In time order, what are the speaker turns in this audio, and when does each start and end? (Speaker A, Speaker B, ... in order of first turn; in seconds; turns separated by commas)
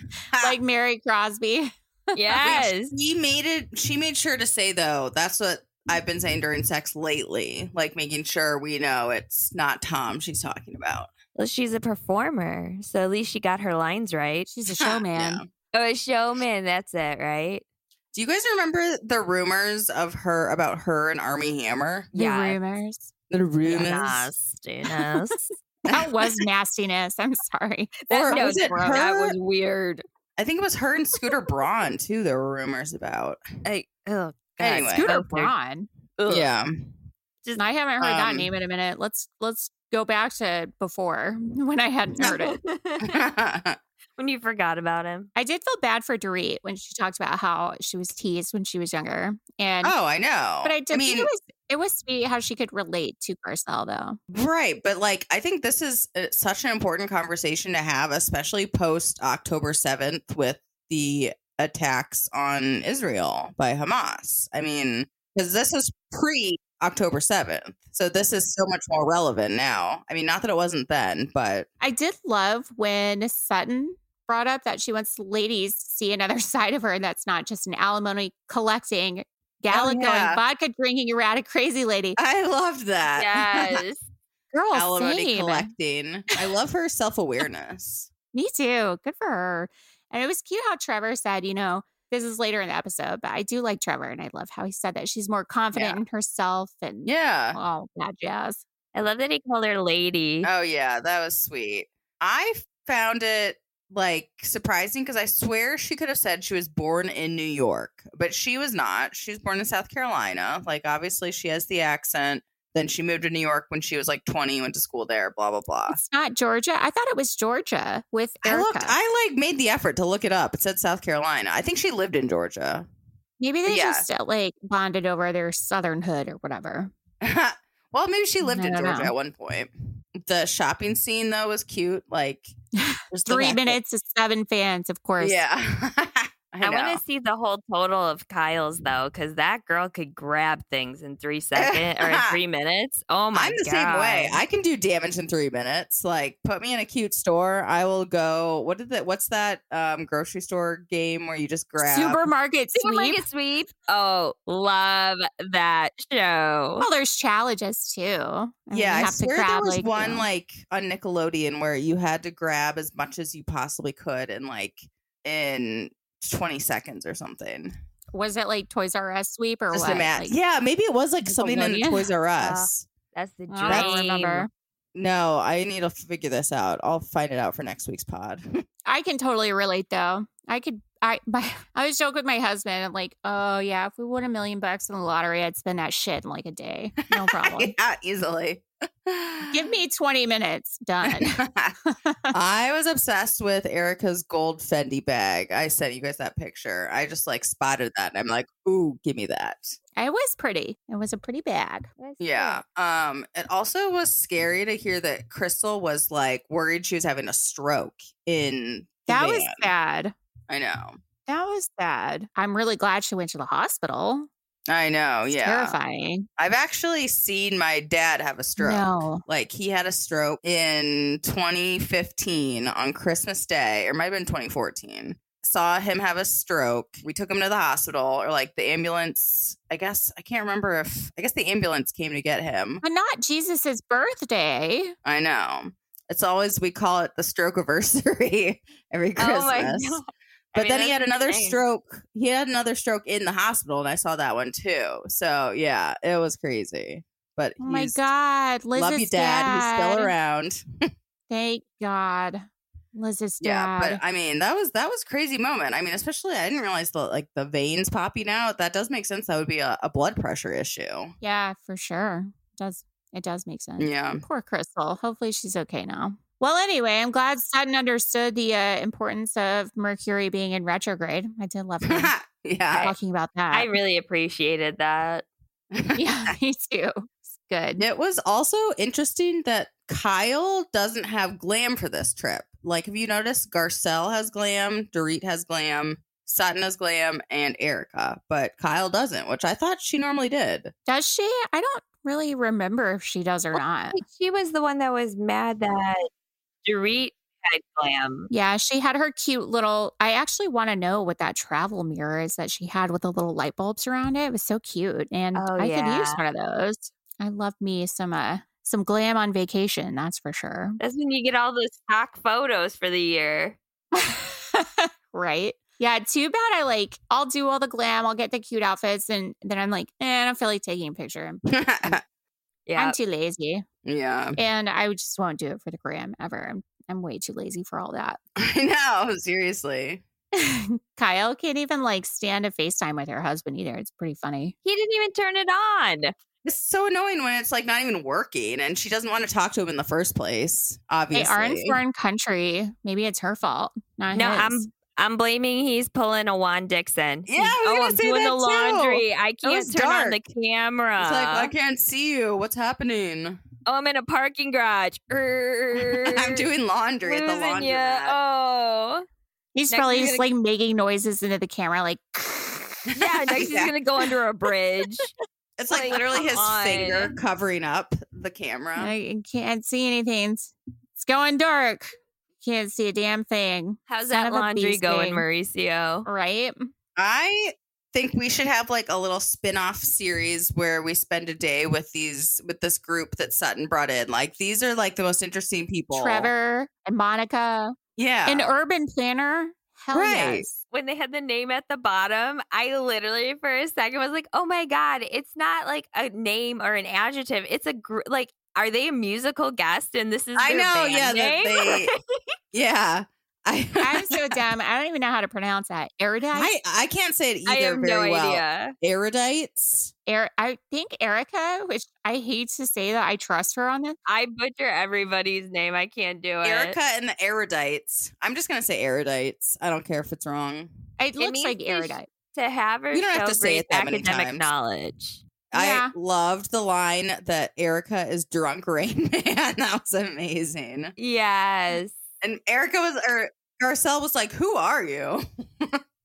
Speaker A: 0.3-0.6, Speaker B: 0.4-2.7, Speaker C: 2.1-2.9, Speaker A: 2.4-11.1, Speaker C: 11.3-14.5, Speaker B: 14.5-15.4, Speaker A: 14.8-15.5, Speaker C: 15.7-17.6, Speaker A: 18.1-22.1, Speaker C: 22.1-22.6, Speaker B: 22.1-23.1, Speaker A: 23.3-24.3, Speaker C: 23.6-25.4, Speaker A: 25.9-26.4, Speaker B: 25.9-29.0, Speaker A: 28.1-29.4, Speaker C: 28.2-30.0, Speaker A: 30.4-33.4, Speaker C: 33.6-35.5, Speaker A: 34.6-35.1, Speaker B: 34.9-35.9, Speaker C: 36.2-36.5, Speaker A: 36.3-36.9, Speaker B: 37.6-42.6, Speaker A: 38.0-38.5, Speaker C: 42.2-43.2, Speaker A: 43.0-43.8, Speaker C: 44.2-45.3, Speaker B: 45.4-49.9, Speaker A: 49.8-51.3, Speaker B: 50.6-54.2, Speaker A: 54.3-71.7, Speaker B: 71.8-82.2, Speaker A: 79.7-80.4, Speaker A: 82.2-83.8, Speaker C: 83.2-84.0, Speaker B: 84.5-85.7, Speaker A: 84.7-88.1, Speaker B: 88.3-98.6, Speaker A: 95.7-96.0, Speaker A: 97.0-97.6, Speaker C: 98.9-100.5, Speaker A: 100.4-116.0, Speaker B: 115.9-119.0, Speaker A: 118.4-122.8, Speaker B: 123.4-126.9, Speaker A: 123.7-124.0, Speaker A: 127.2-132.5, Speaker B: 128.4-129.1, Speaker B: 132.8-135.4, Speaker A: 133.1-133.8, Speaker A: 135.2-137.0, Speaker C: 136.6-144.4, Speaker A: 141.5-142.4, Speaker A: 143.3-152.2, Speaker B: 151.8-153.2, Speaker C: 152.7-156.8, Speaker B: 156.8-160.2, Speaker A: 158.7-167.7, Speaker B: 168.1-170.3, Speaker A: 169.7-172.9, Speaker B: 171.2-172.1, Speaker C: 172.4-174.5, Speaker B: 173.5-174.5, Speaker A: 173.7-174.0, Speaker A: 174.9-178.5, Speaker B: 178.8-187.7, Speaker A: 187.1-189.7, Speaker B: 189.5-192.3, Speaker A: 191.0-191.8, Speaker A: 192.3-199.8, Speaker B: 200.0-201.9, Speaker C: 202.0-202.6, Speaker A: 202.2-209.7, Speaker B: 209.1-210.1, Speaker A: 210.5-211.0, Speaker B: 211.3-214.3, Speaker A: 214.7-215.8, Speaker B: 215.3-216.3, Speaker A: 216.4-232.8, Speaker B: 218.6-219.2, Speaker B: 232.8-234.9, Speaker A: 235.0-240.0, Speaker C: 239.2-241.6, Speaker A: 240.5-248.1, Speaker B: 247.6-250.1, Speaker A: 248.7-250.6, Speaker B: 251.3-254.0, Speaker A: 253.4-261.1, Speaker B: 261.2-272.1, Speaker A: 263.8-264.2, Speaker A: 271.8-272.9, Speaker B: 272.7-273.7, Speaker C: 273.5-275.2, Speaker A: 275.7-276.0, Speaker B: 275.9-277.8, Speaker A: 277.8-290.7, Speaker B: 290.9-294.0, Speaker C: 293.9-296.1, Speaker C: 296.6-298.3, Speaker B: 298.3-310.8, Speaker C: 305.3-306.2, Speaker C: 310.8-313.6, Speaker B: 313.9-322.0, Speaker A: 321.5-322.0, Speaker C: 322.7-322.9, Speaker B: 322.8-323.6, Speaker A: 323.9-324.4, Speaker B: 324.4-328.2, Speaker A: 328.4-330.0, Speaker B: 330.3-334.5, Speaker C: 334.6-336.1, Speaker A: 336.4-341.8, Speaker B: 341.1-344.7, Speaker C: 344.1-351.5, Speaker A: 347.3-350.2, Speaker A: 351.0-353.4, Speaker C: 353.6-356.4, Speaker A: 355.8-358.2, Speaker C: 357.0-359.0, Speaker B: 359.5-362.9, Speaker C: 359.7-360.2, Speaker A: 362.9-363.7, Speaker C: 362.9-365.1, Speaker A: 365.6-368.9, Speaker C: 365.7-367.1, Speaker B: 368.8-375.2, Speaker C: 373.9-376.1, Speaker B: 376.1-376.7, Speaker A: 376.9-386.3, Speaker B: 385.9-390.6, Speaker A: 388.0-388.5, Speaker A: 389.9-390.4, Speaker C: 390.7-402.0, Speaker A: 400.4-401.9, Speaker A: 402.5-404.4, Speaker B: 403.8-406.5, Speaker A: 406.3-409.9, Speaker C: 407.5-408.7, Speaker B: 410.1-414.0, Speaker C: 414.1-416.8, Speaker A: 416.4-420.7, Speaker B: 421.0-422.1, Speaker C: 421.2-425.2, Speaker A: 422.9-424.5, Speaker A: 425.5-430.9, Speaker B: 425.5-425.9, Speaker C: 431.0-431.9, Speaker A: 432.2-435.8